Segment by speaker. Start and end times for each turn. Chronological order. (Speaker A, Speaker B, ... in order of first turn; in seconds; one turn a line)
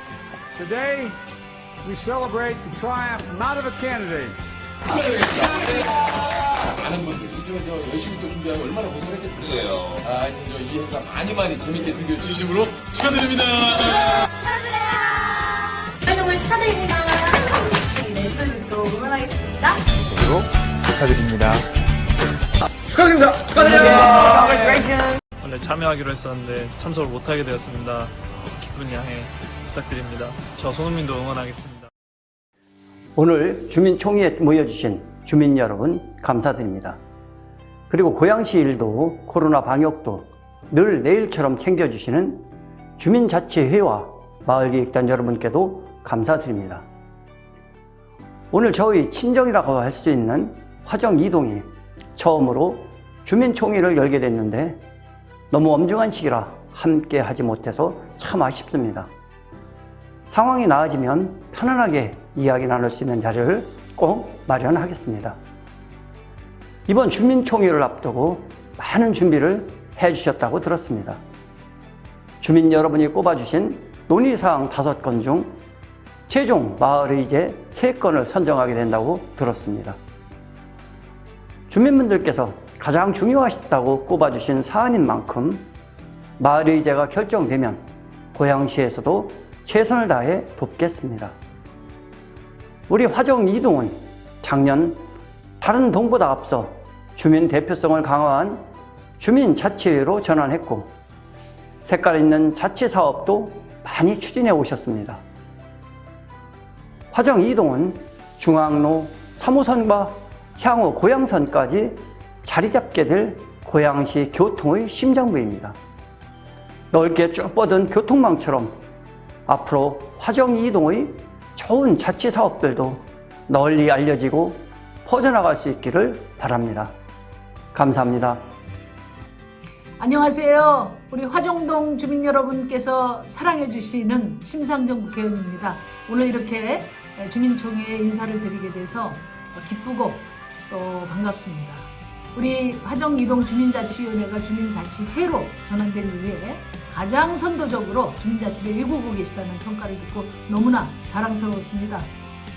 Speaker A: 0.6-1.2
Speaker A: 1.8-4.4
Speaker B: 5.2-5.8
Speaker B: 6.8-13.5
Speaker C: 14.5-17.4
Speaker C: 18.1-19.8
Speaker B: 23.6-24.5
Speaker D: 23.9-24.6
Speaker D: 25.4-31.9
Speaker E: 33.2-37.0
Speaker E: 37.9-42.5
Speaker E: 43.0-46.8
Speaker E: 48.5-51.6
Speaker E: 52.2-54.8
Speaker E: 55.5-59.1
Speaker E: 60.3-65.4
Speaker E: 66.9-71.2
Speaker E: 72.4-75.6
Speaker E: 76.3-80.0
Speaker E: 81.7-85.7
Speaker E: 86.4-91.3
Speaker E: 92.9-95.0
Speaker E: 95.6-98.7
Speaker E: 99.2-100.9
Speaker E: 101.8-105.2
Speaker E: 107.1-115.8
Speaker E: 116.9-118.8
Speaker E: 119.5-126.9
Speaker E: 127.7-128.4
Speaker F: 130.0-152.1